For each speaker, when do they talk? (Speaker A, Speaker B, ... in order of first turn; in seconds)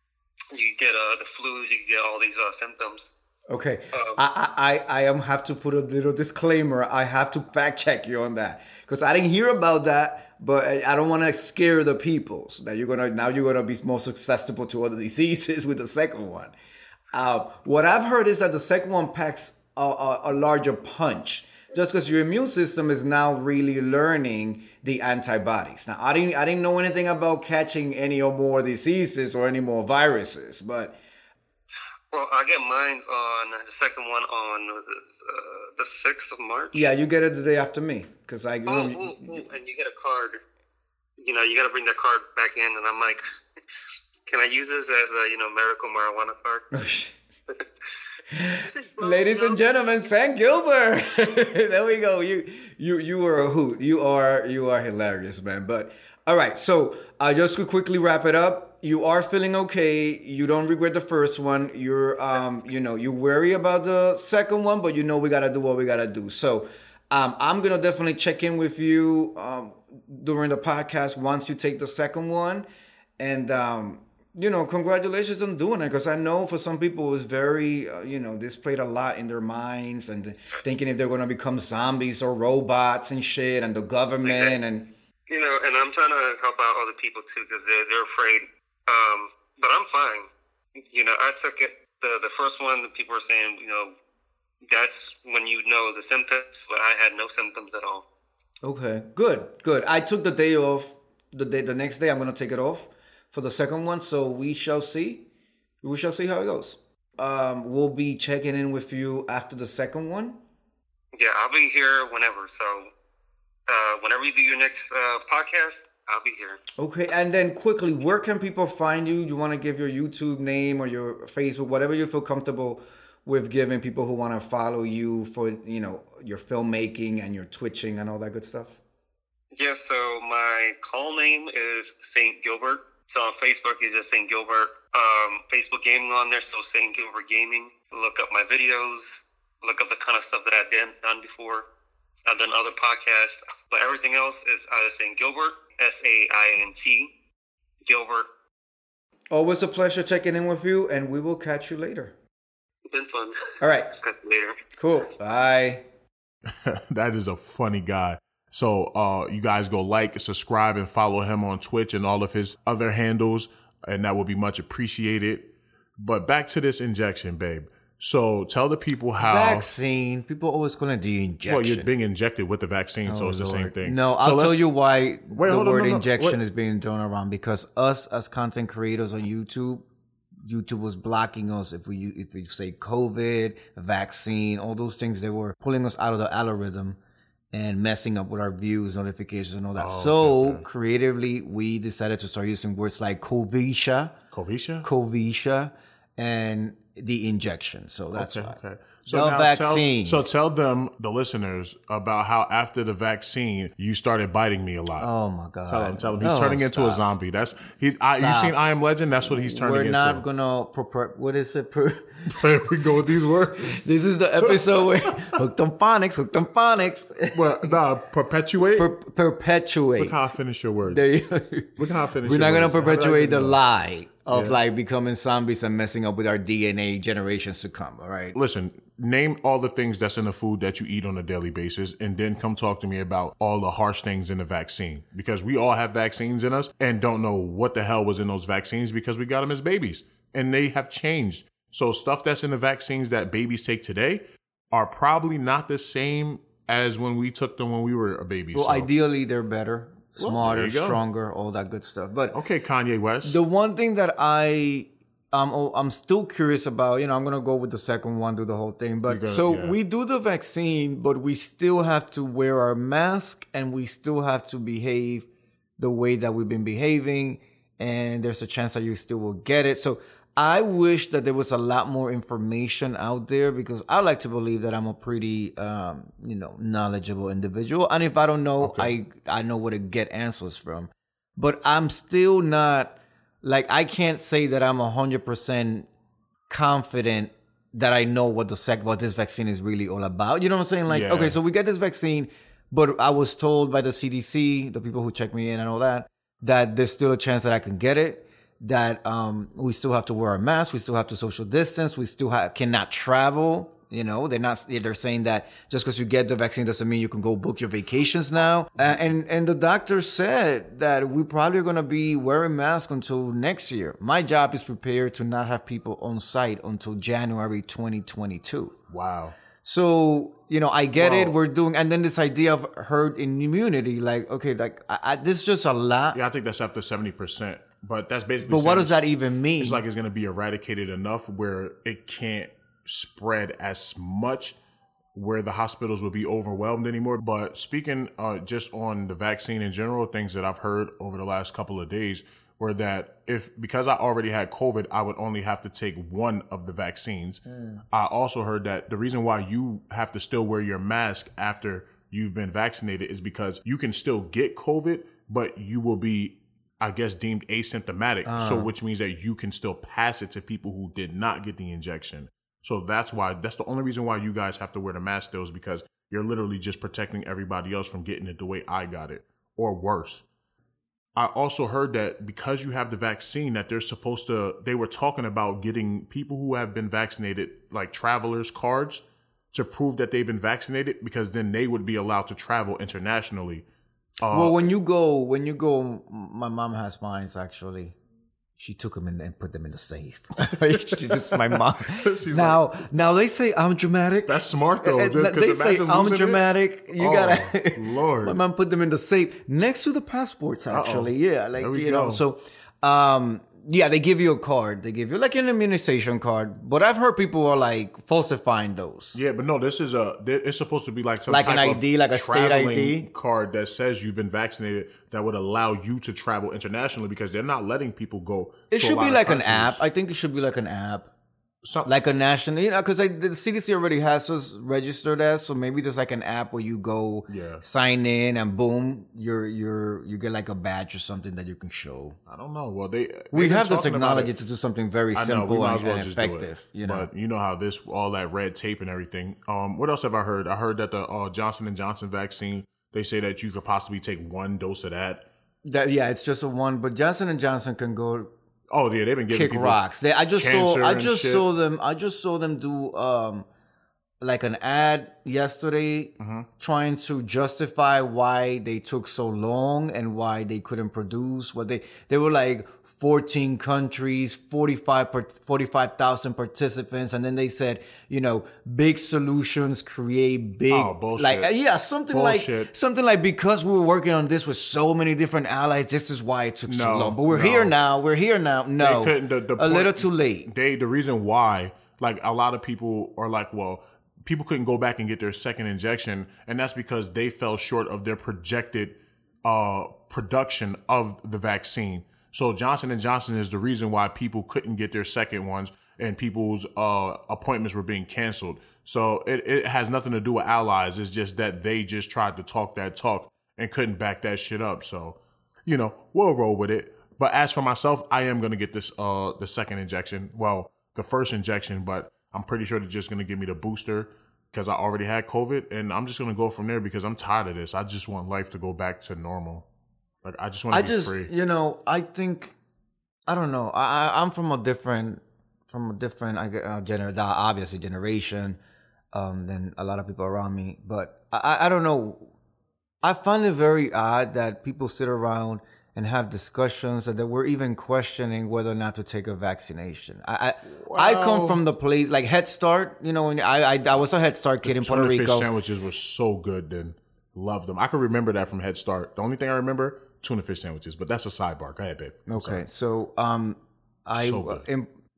Speaker A: 0.5-3.1, 3.9-4.2, 32.1-36.9, 38.7-40.4, 41.2-43.2, 44.3-46.7, 48.6-49.6, 84.2-84.6, 85.3-90.3, 90.9-93.9, 94.6-98.0, 111.2-112.9, 113.7-116.6, 129.5-141.7, 142.3-147.1, 147.8-148.3, 152.9-154.7
Speaker B: 3.5-16.5, 17.1-31.0, 36.7-39.4, 46.7-47.1, 48.3-72.7, 73.2-84.9, 98.6-105.3, 105.8-110.4, 116.8-128.8, 149.3-152.1, 153.6-153.9, 154.8-155.8, 169.2-171.9, 173.1-179.9, 180.4-187.0, 187.5-194.1, 194.8-198.6, 199.1-200.2, 205.0-207.0, 208.2-208.6, 209.3-212.6, 213.6-217.7, 218.8-220.3, 220.9-228.4, 248.5-252.4, 253.2-285.9, 286.5-318.8, 319.6-326.2, 328.4-329.8, 347.5-347.8, 358.2-358.7, 384.3-388.0, 388.6-409.2, 411.3-413.1, 418.7-421.1, 421.9-432.2, 433.3-437.1, 445.6-448.3, 449.3-453.5, 454.2-480.5, 520.7-522.5, 523.3-528.6, 529.1-532.3, 533.0-545.5, 552.3-554.9
Speaker C: 156.4-169.7, 171.5-174.7, 175.3-176.4, 189.8-190.7, 194.3-194.9, 198.2-205.1, 205.7-210.2, 212.3-213.8, 214.4-215.4, 217.3-218.9, 220.0-221.1, 221.8-223.6, 224.3-224.6, 228.3-248.9, 250.2-251.0, 252.3-253.4, 259.1-259.8, 278.6-278.9, 290.9-291.4, 318.9-319.4, 321.0-321.4, 326.1-329.0, 329.6-334.6, 335.1-370.2, 371.2-383.6, 384.2-384.6, 390.5-392.8, 394.3-398.4, 400.7-402.2, 409.1-419.8, 421.6-421.9, 427.3-427.6, 432.3-434.3, 435.1-445.3, 448.7-449.8, 450.4-451.5, 456.2-456.5, 470.7-471.5, 472.1-472.7, 476.7-477.7, 478.8-519.7, 520.2-521.3, 540.6-541.6, 544.6-552.6, 554.1-554.7